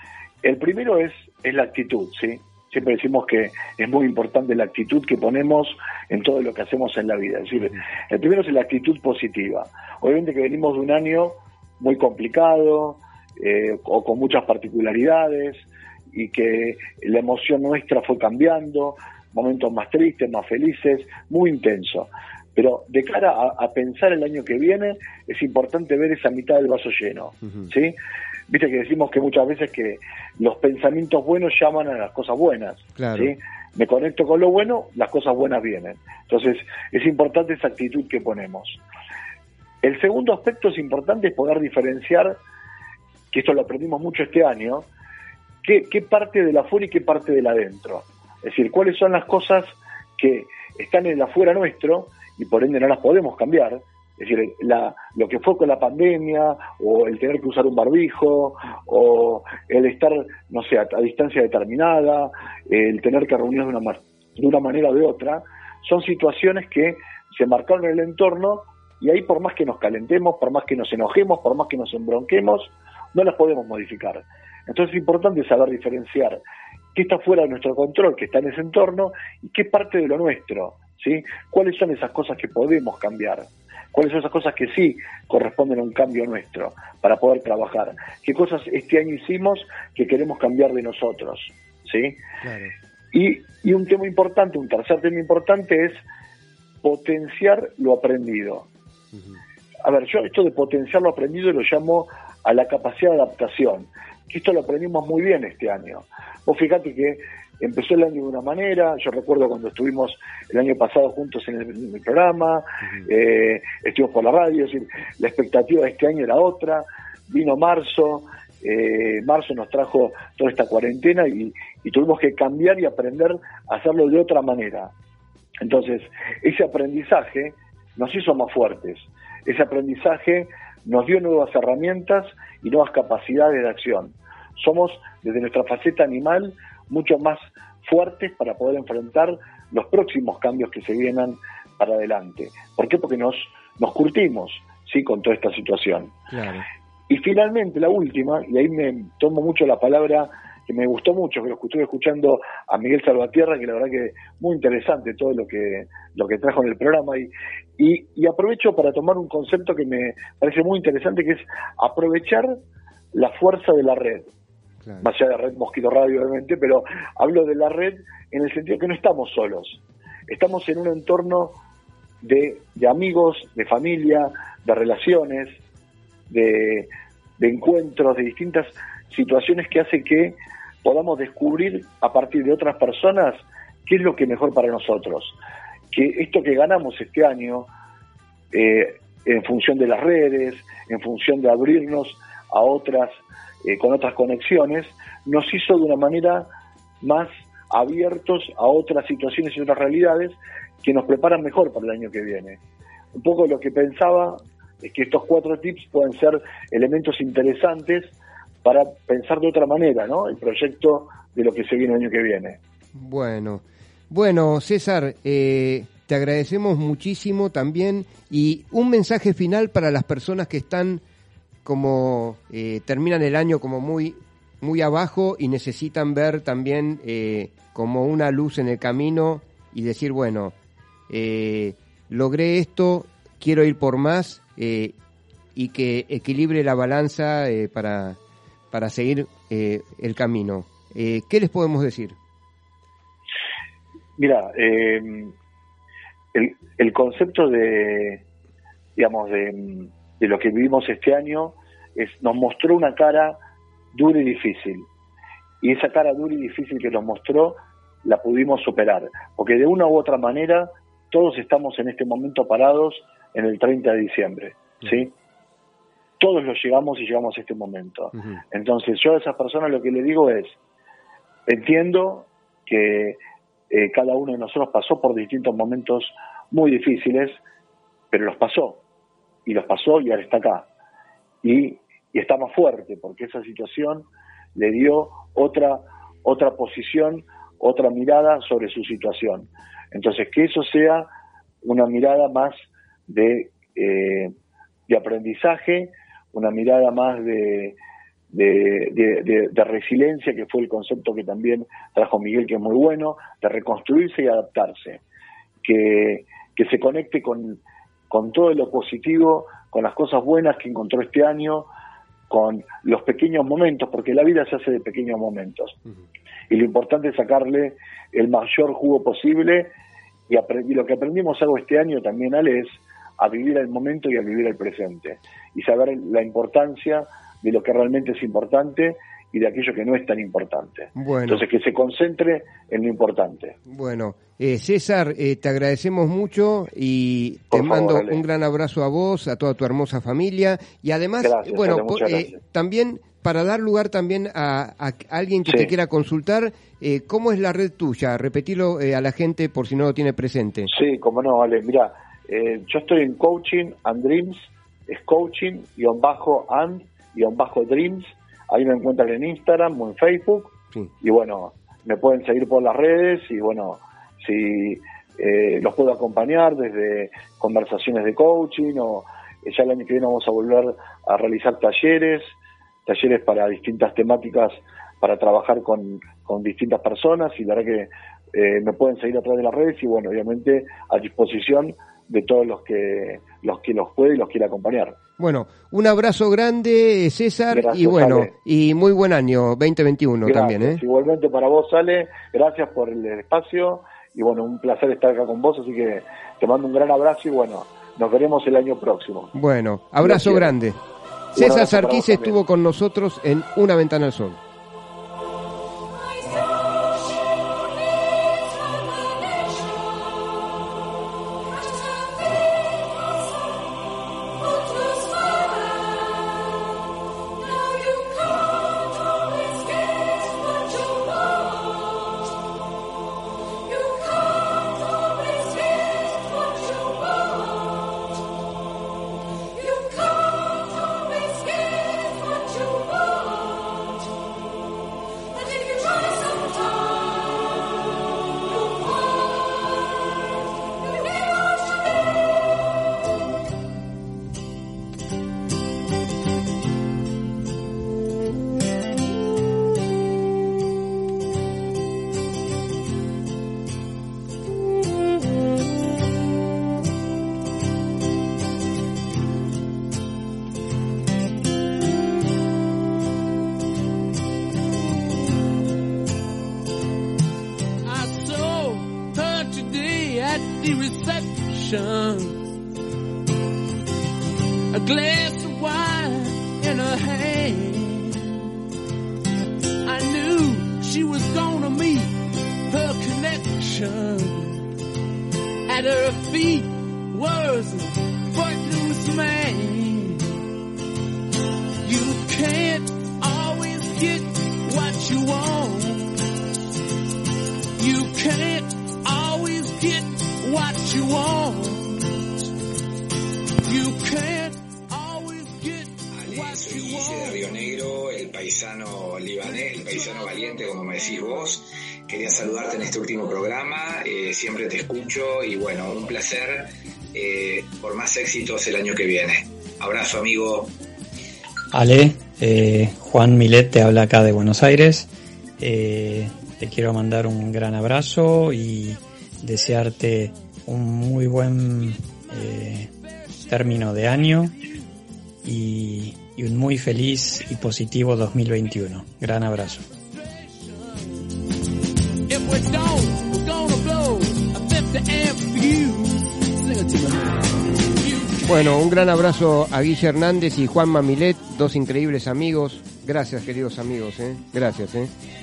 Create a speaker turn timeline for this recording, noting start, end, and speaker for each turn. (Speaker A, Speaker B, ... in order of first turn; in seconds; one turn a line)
Speaker A: 0.4-27.9
Speaker B: 27.4-27.7
Speaker A: 28.5-38.8
Speaker B: 33.0-33.3
Speaker A: 39.8-42.4
Speaker A: 43.3-44.9
Speaker A: 45.6-76.4
Speaker A: 76.9-92.2
Speaker B: 92.4-92.7
Speaker A: 93.1-96.0
Speaker A: 96.8-98.7
Speaker A: 99.8-124.9
Speaker A: 125.6-146.1
Speaker B: 146.3-146.7
Speaker A: 147.1-162.6
Speaker A: 163.1-164.3
Speaker A: 165.0-171.6
Speaker A: 172.2-175.6
Speaker A: 176.3-185.3
Speaker A: 185.9-187.7
Speaker A: 188.5-196.5
Speaker A: 197.0-202.6
Speaker A: 203.2-212.6
Speaker B: 212.9-221.0
Speaker B: 221.6-230.5
Speaker B: 231.1-234.9
Speaker B: 235.5-238.2
Speaker B: 238.7-242.2
Speaker A: 244.2-245.3
Speaker A: 246.3-248.2
Speaker A: 248.9-253.4
Speaker A: 253.9-254.9
Speaker A: 255.6-265.1
Speaker A: 266.2-270.6
Speaker A: 271.5-273.2
Speaker A: 273.7-277.4
Speaker A: 278.1-278.8
Speaker A: 279.4-280.7
Speaker A: 281.4-291.1
Speaker A: 291.6-292.6
Speaker A: 293.1-294.3
Speaker A: 294.9-297.8
Speaker A: 298.3-305.0
Speaker A: 305.6-311.7
Speaker A: 312.3-315.8
Speaker A: 316.5-319.7
Speaker A: 320.3-333.6
Speaker B: 330.9-331.4
Speaker B: 333.7-350.7
Speaker A: 337.5-338.2
Speaker A: 341.2-342.4
Speaker A: 350.7-372.3
Speaker A: 372.9-385.0
Speaker B: 385.2-390.8
Speaker A: 387.5-388.3
Speaker A: 390.2-399.3
Speaker B: 399.3-400.8
Speaker A: 400.0-400.5
Speaker A: 401.3-402.4
Speaker B: 401.3-404.4
Speaker C: 467.9-472.4
Speaker C: 474.7-478.4
Speaker C: 479.8-482.1
Speaker C: 482.7-484.6
Speaker C: 485.7-490.2
Speaker C: 491.8-496.1
Speaker C: 497.8-502.1
Speaker C: 503.7-507.4
Speaker D: 506.2-520.7
Speaker E: 521.7-525.1
Speaker E: 525.6-532.9
Speaker E: 533.5-534.5
Speaker E: 535.4-539.8
Speaker C: 542.3-547.3
Speaker C: 548.0-548.3
Speaker B: 548.4-555.1